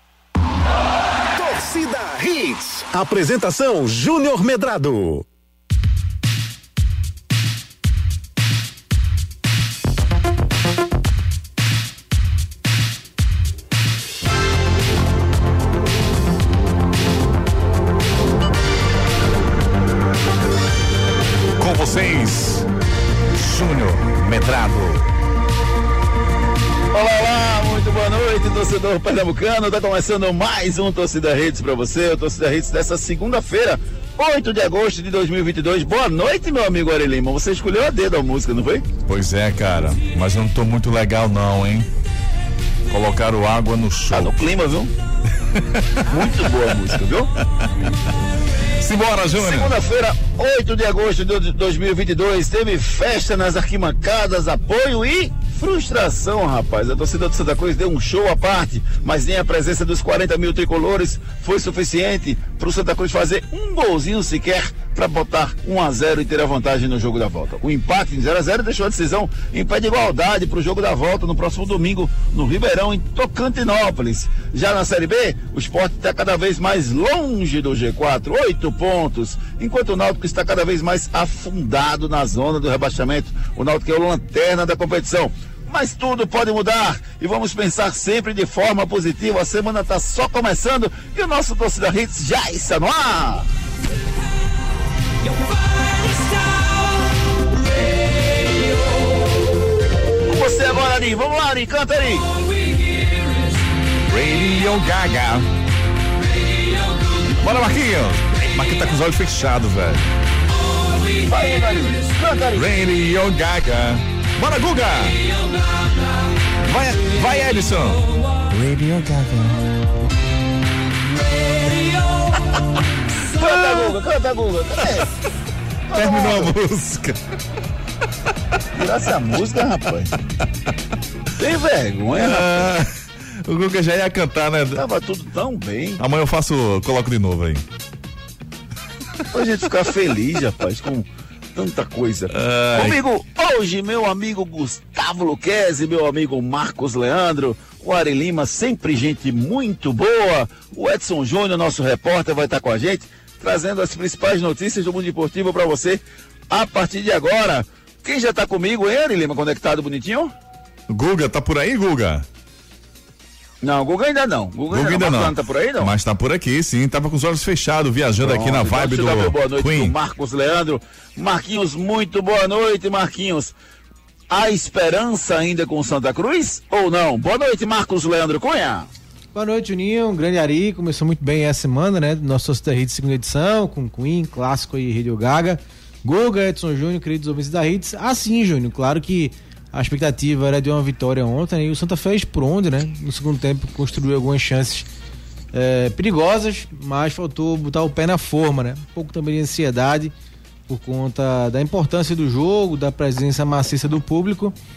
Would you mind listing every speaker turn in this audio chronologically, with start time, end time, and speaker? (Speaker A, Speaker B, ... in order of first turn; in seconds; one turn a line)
Speaker A: 1.4-5.2
Speaker B: 21.6-22.7
Speaker B: 23.3-25.1
Speaker C: 26.9-38.9
Speaker B: 39.1-41.9
Speaker B: 42.9-44.4
Speaker C: 44.1-44.9
Speaker C: 46.0-47.3
Speaker B: 48.8-49.8
Speaker C: 49.4-93.5
Speaker C: 100.2-102.3
Speaker B: 104.1-105.5
Speaker B: 107.3-110.1
Speaker C: 111.1-112.7
Speaker B: 112.5-115.2
Speaker B: 116.6-118.1
Speaker C: 123.3-125.1
Speaker B: 123.4-123.9
Speaker C: 125.9-126.6
Speaker B: 125.9-127.2
Speaker C: 128.7-130.1
Speaker C: 131.4-132.7
Speaker B: 132.2-132.9
Speaker B: 133.4-134.8
Speaker C: 134.7-136.0
Speaker B: 136.0-137.6
Speaker C: 139.3-160.3
Speaker B: 142.3-143.0
Speaker B: 160.9-162.2
Speaker C: 163.6-165.9
Speaker B: 164.7-169.9
Speaker C: 168.2-173.5
Speaker C: 174.3-178.9
Speaker D: 179.3-194.9
Speaker D: 195.5-200.1
Speaker D: 200.7-204.5